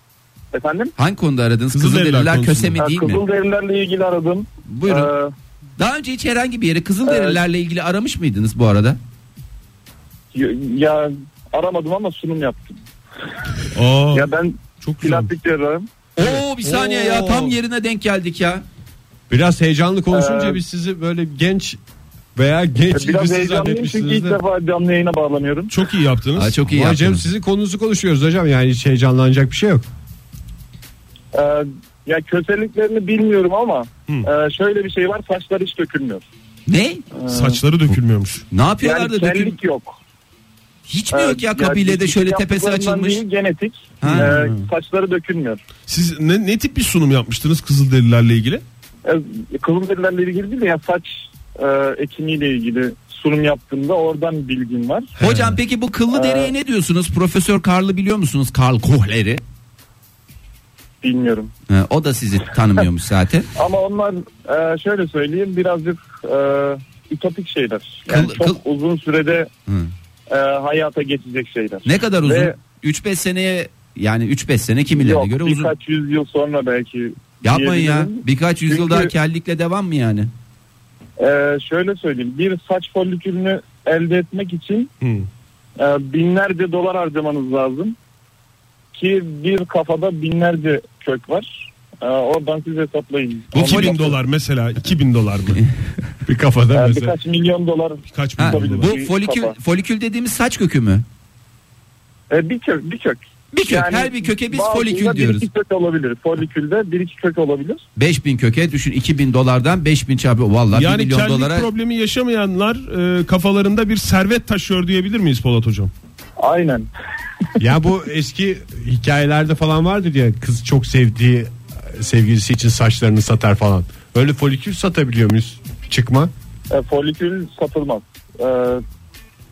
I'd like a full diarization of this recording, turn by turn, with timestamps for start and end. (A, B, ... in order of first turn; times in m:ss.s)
0:00.5-0:00.9 A
0:01.0-0:03.2 B
0:01.7-0:02.8 C
0:02.8-0:05.3 A
0:04.7-0:05.1 B
0:05.8-0:09.0 B
0:07.0-0:07.4 A
0:10.3-0:12.8 A
0:13.7-0:14.3 C
0:14.1-0:15.9 A
0:14.8-0:15.3 C
0:16.2-0:17.6 C
0:16.2-0:18.6 B
0:19.3-0:21.8 D
0:20.1-0:20.6 A
0:22.3-0:24.4 D
0:22.9-0:25.7 A
0:25.7-0:26.5 C
0:26.4-0:27.2 B
0:26.6-0:29.8 D
0:31.3-0:36.2 A
0:36.7-0:37.0 B
0:37.1-0:37.6 A
0:37.3-0:38.4 C
0:38.5-0:39.6 B
0:38.8-0:40.0 A
0:40.9-0:43.2 B
0:41.1-0:45.6 A
0:44.0-0:44.5 B
0:44.1-0:44.5 C
0:45.9-0:48.6 C
0:49.0-0:55.1 A
0:55.2-0:55.6 C
0:55.2-0:59.4 B
0:56.1-0:56.5 A
1:01.0-1:01.5 A
1:01.7-1:03.5 B
1:03.6-1:09.5 A
1:08.1-1:08.6 B
1:10.3-1:12.5 A
1:11.8-1:15.7 B
1:14.9-1:19.1 A
1:17.4-1:20.3 B
1:21.2-1:24.9 A
1:25.0-1:25.3 C
1:25.8-1:28.0 A
1:28.9-1:34.2 A
1:33.5-1:34.0 B
1:33.5-1:35.6 C
1:36.2-1:37.2 D
1:36.7-1:39.6 A
1:38.1-1:38.9 C
1:38.4-1:41.0 B
1:42.3-1:47.8 A
1:43.5-1:45.5 B
1:48.0-1:51.7 B
1:50.7-1:55.9 C
1:56.4-1:56.9 A
1:57.6-2:06.3 D
2:06.7-2:08.8 A